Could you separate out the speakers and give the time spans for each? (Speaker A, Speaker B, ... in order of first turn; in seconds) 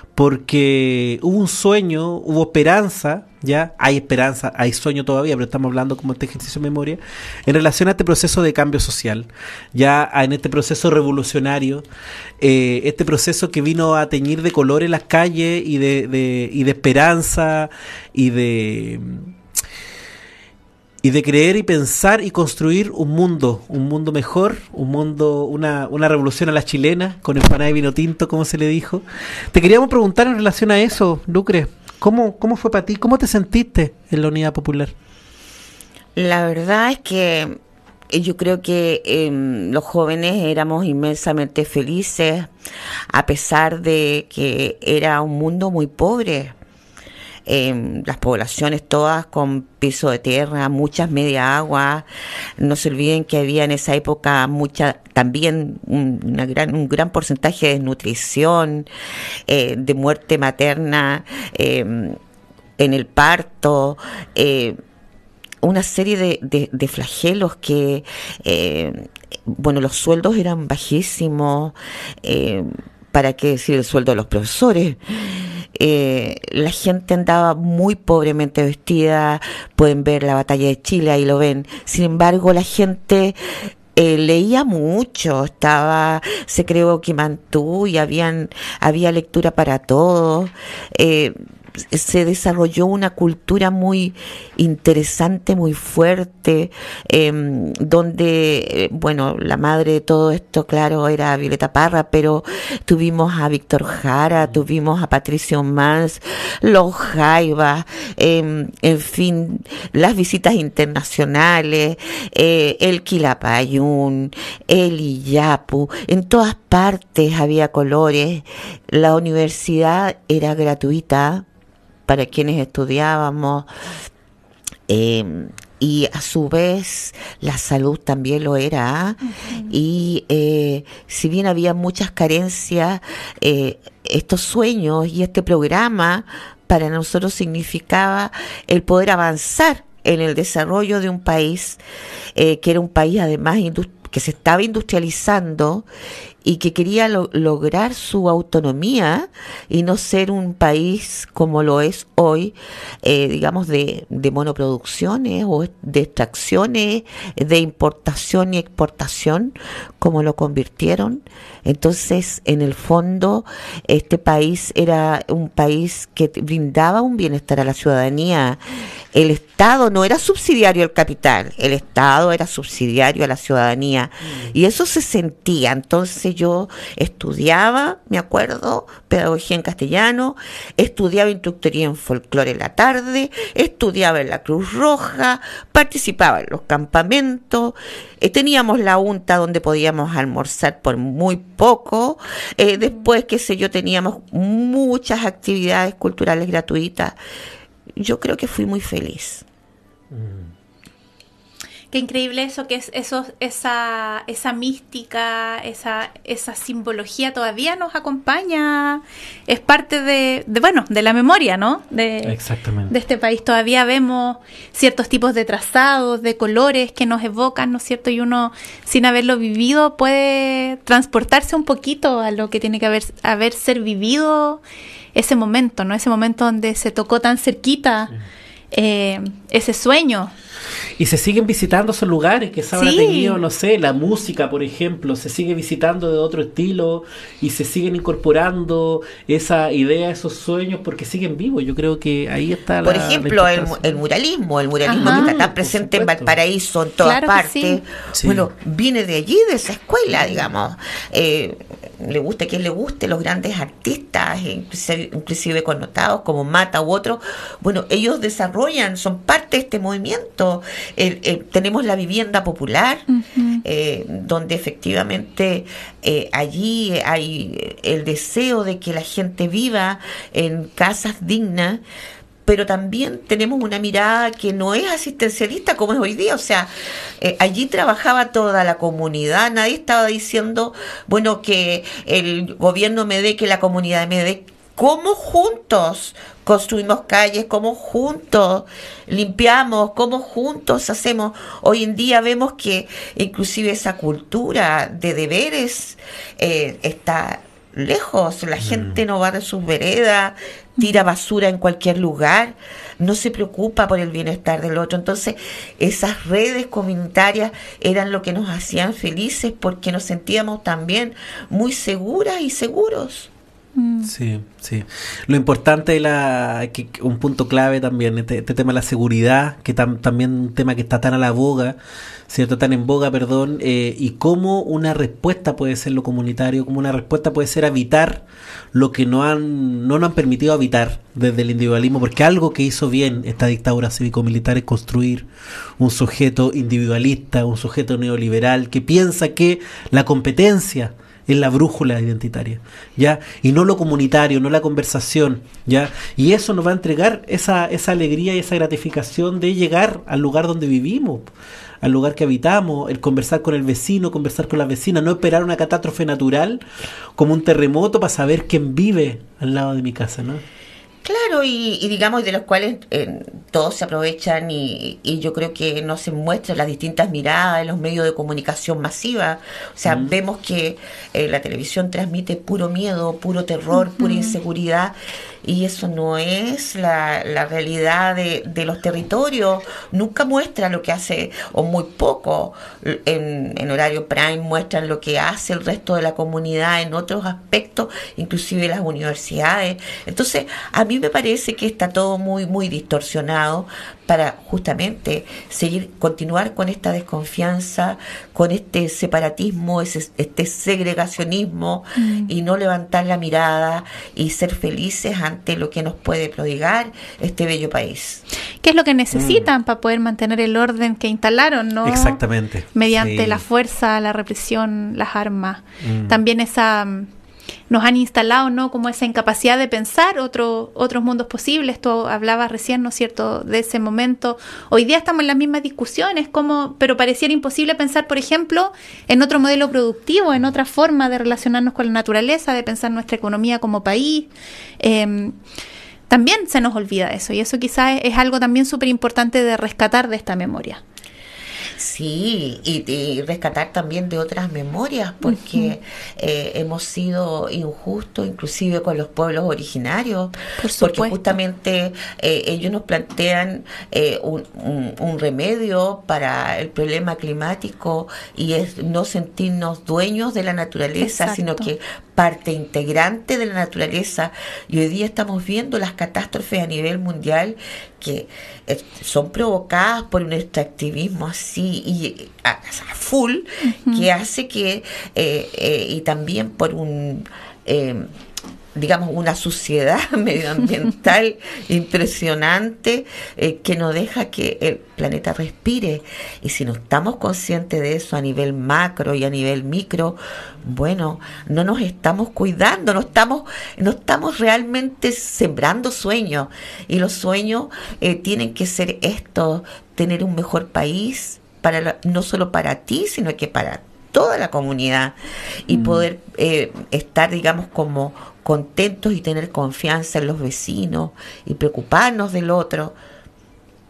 Speaker A: 0.2-11.8, 12.4-19.3, 21.0-34.9, 200.1-200.5, 212.2-212.9, 231.0-243.9, 245.0-246.3, 248.1-248.5, 298.6-298.9, 314.1-321.8, 322.3-328.2, 328.7-335.3, 335.8-351.3, 351.8-356.6, 357.2-360.4, 369.9-370.1, 409.1-409.5, 411.9-413.4, 415.8-416.2
Speaker B: 36.2-37.6, 38.1-42.5, 43.1-46.5, 47.5-52.1, 52.6-58.9, 59.5-62.2, 62.8-64.8, 65.6-75.0, 75.8-83.4, 83.9-121.5, 122.1-123.7, 124.9-141.8, 142.3-145.9, 146.4-168.6, 169.1-197.2, 198.0-199.4, 242.8-263.1, 263.6-271.8, 272.4-313.3, 361.0-408.2, 441.8-478.1, 478.8-513.0
Speaker C: 129.4-129.7, 201.9-212.4, 212.9-224.6, 225.2-228.1, 228.7-230.3, 232.7-233.4, 244.8-245.4, 247.0-247.8, 263.1-263.6, 313.8-314.1, 373.9-374.3, 402.0-402.3, 408.6-412.2, 412.8-417.1, 417.7-435.4, 436.1-440.8, 445.3-445.7, 450.6-451.2, 461.0-461.7, 473.6-474.1, 505.7-506.1